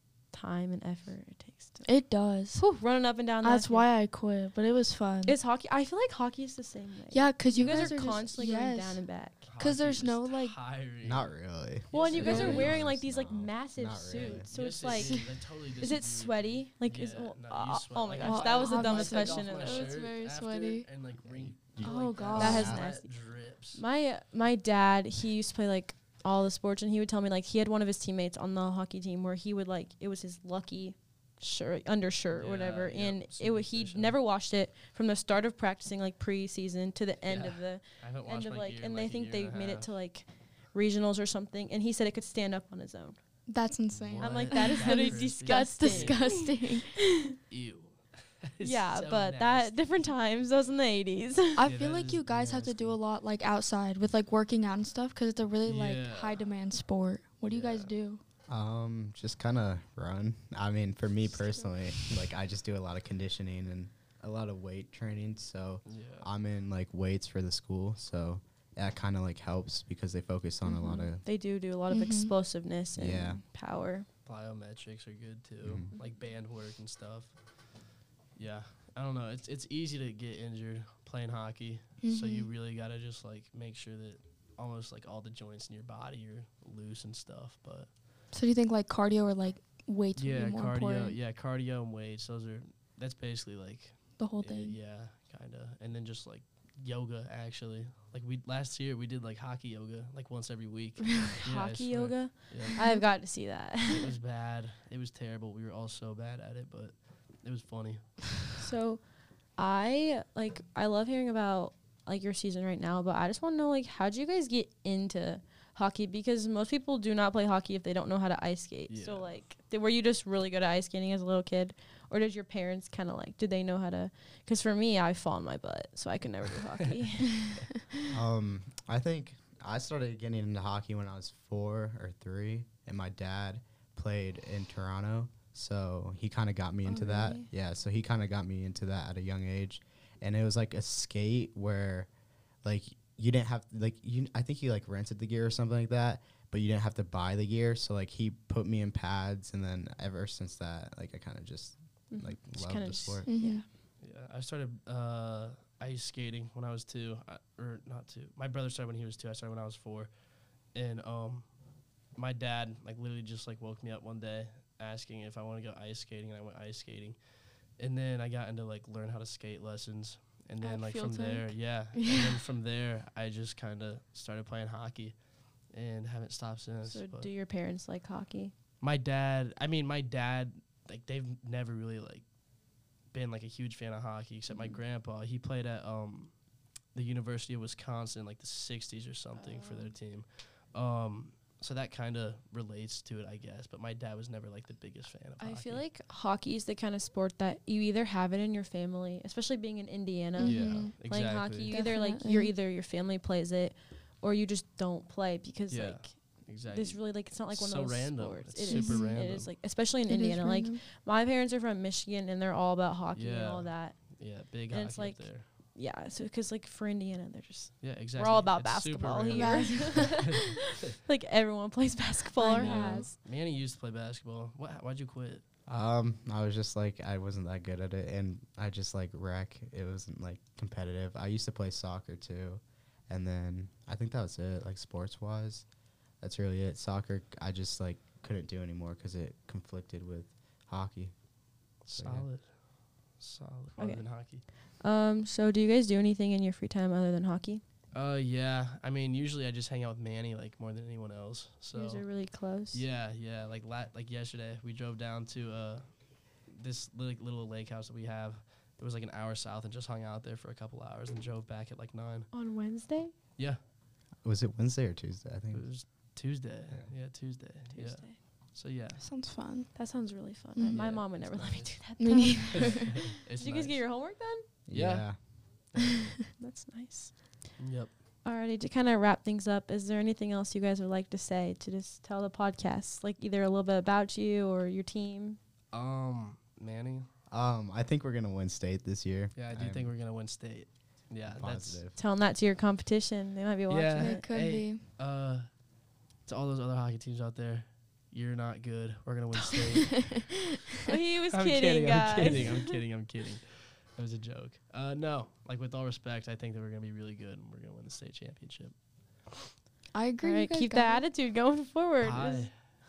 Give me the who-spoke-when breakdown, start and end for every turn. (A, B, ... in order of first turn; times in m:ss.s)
0:00.3-0:01.8 A
0:01.8-0:02.6 B
0:02.6-0:03.8 A
0:03.4-0:05.4 B
0:05.2-0:09.4 A
0:07.1-0:10.5 B
0:09.4-0:11.3 C
0:11.0-0:14.5 D
0:11.9-0:12.8 C
0:11.9-0:15.2 A
0:12.2-0:12.7 B
0:14.2-0:23.8 C
0:14.9-0:15.2 B
0:15.8-0:19.9 A
0:18.2-0:20.8 B
0:21.3-0:22.8 D
0:21.8-0:22.8 B
0:22.3-0:23.1 A
0:23.7-0:43.2 A
0:32.3-0:34.2 C
0:37.2-0:39.9 C
0:43.5-0:47.0 B
0:44.1-0:46.2 C
0:44.2-0:47.4 A
0:47.5-0:49.7 C
0:48.6-0:51.6 A
0:51.6-0:58.2 B
0:51.6-0:53.0 C
0:55.6-0:56.5 C
0:57.4-0:57.9 C
0:58.5-1:11.2 D
1:05.8-1:06.3 C
1:11.2-1:14.0 A
1:11.9-1:12.3 B
1:13.0-1:13.4 D
1:14.2-1:17.4 C
1:15.6-1:15.9 D
1:18.3-1:27.9 C
1:22.0-1:22.5 B
1:28.3-1:31.2 B
1:30.2-1:42.9 C
1:34.2-1:34.8 B
1:41.4-1:44.1 A
1:42.7-1:43.0 B
1:43.8-1:48.0 C
1:48.6-1:49.0 A
1:49.6-2:07.6 A
1:58.9-1:59.3 C
2:08.1-2:22.1 D
2:16.8-2:17.2 A
2:22.6-2:33.3 D
2:32.1-2:33.6 A
2:33.2-2:33.6 B
2:34.0-2:40.1 C
2:40.7-2:41.5 C
2:42.2-2:47.2 C
2:47.8-2:55.2 C
2:50.6-2:52.4 B
2:55.7-2:57.3 C
2:56.8-2:58.5 A
2:58.8-3:02.2 C
3:03.1-3:06.3 C
3:06.9-3:15.8 C
3:09.3-3:09.9 A
3:15.4-3:26.2 A
3:20.4-3:20.9 B
3:20.4-3:21.8 C
3:21.7-3:22.5 B
3:25.7-3:29.5 C
3:26.7-3:34.0 A
3:28.7-3:29.1 B
3:30.1-3:30.8 B
3:33.1-3:35.4 C
3:34.7-3:43.1 A
3:37.8-3:40.9 C
3:39.3-3:40.3 B
3:42.4-3:43.1 B
3:42.6-3:45.4 C
3:45.7-3:55.6 D
3:56.2-4:01.1 D
4:01.8-4:02.5 C
4:02.0-4:02.2 D
4:03.2-4:04.4 C
4:03.8-4:04.0 A
4:04.8-4:07.6 A
4:07.9-4:12.0 C
4:11.7-4:12.8 A
4:12.7-4:15.9 C
4:16.5-4:22.3 C
4:22.3-4:23.1 A
4:24.2-4:25.6 D
4:25.5-4:29.0 C
4:27.7-4:28.2 A
4:29.0-4:29.7 B
4:29.7-4:34.4 A
4:30.6-4:30.8 B
4:30.6-4:31.8 C
4:32.0-4:33.0 B
4:32.5-4:33.8 C
4:34.7-4:35.2 D
4:34.7-4:35.1 C
4:35.7-4:36.1 C
4:36.4-4:37.3 A
4:37.6-4:37.9 C
4:38.2-4:45.4 A
4:45.7-4:47.1 C
4:47.3-4:49.9 D
4:49.4-4:51.8 C
4:51.2-4:52.0 D
4:52.0-4:54.2 A
4:53.7-4:55.5 C
4:53.9-4:54.8 B
4:56.2-5:00.3 C
5:00.8-5:02.6 A
5:01.3-5:08.7 C
5:09.9-5:11.0 B
5:10.2-5:12.5 A
5:12.0-5:12.5 C